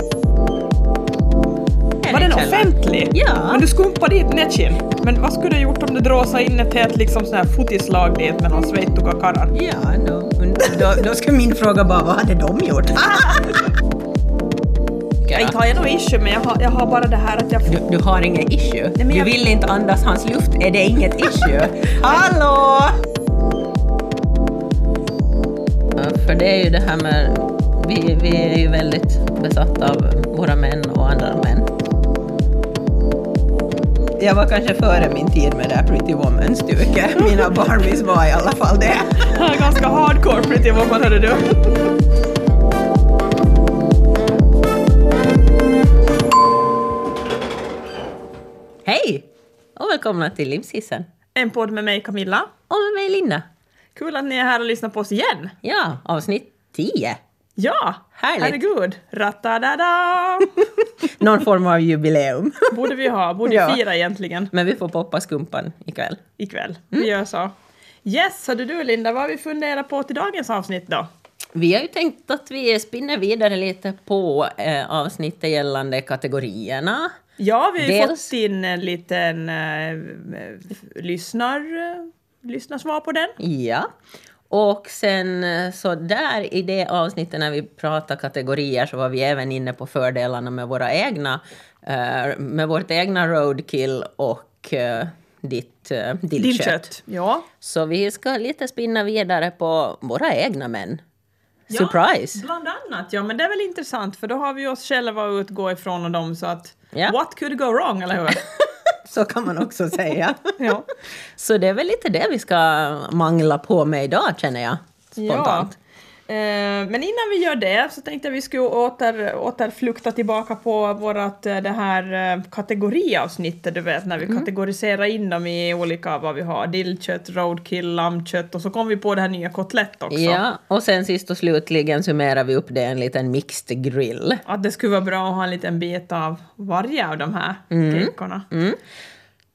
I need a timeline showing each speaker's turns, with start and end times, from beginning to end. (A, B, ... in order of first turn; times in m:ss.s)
0:02.0-0:03.6 A
0:02.1-0:09.5 B
0:09.5-0:13.6 A
0:15.3-0:15.5 A
0:15.3-0:17.8 B
0:17.6-0:22.9 A
0:19.0-0:19.3 B
0:25.9-0:31.7 A
0:34.2-0:39.3 A
0:37.2-0:37.5 B
0:39.2-0:41.9 B
0:48.8-0:51.1 A
0:51.3-0:52.5 B
0:52.7-0:53.4 A
0:53.9-0:55.5 B
0:55.6-0:57.2 A
0:57.6-1:01.1 B
0:58.2-0:58.6 A
1:01.0-1:02.9 A
1:02.7-1:04.5 B
1:03.4-1:03.8 A
1:04.5-1:06.2 A
1:06.4-1:07.5 B
1:08.0-1:11.0 B
1:11.5-1:17.1 A
1:17.4-1:23.4 B
1:17.8-1:18.3 A
1:23.4-1:23.9 A
1:24.5-1:36.8 A
1:36.4-1:37.5 B
1:37.6-1:41.0 A
1:41.7-1:48.4 B
1:41.7-1:42.4 A
1:49.0-1:50.5 A
1:50.6-1:50.9 B
1:51.4-1:55.7 A
1:55.2-1:55.7 B
1:56.3-2:10.4 B
2:10.1-2:14.4 A
2:14.4-2:18.5 B
2:17.7-2:18.8 A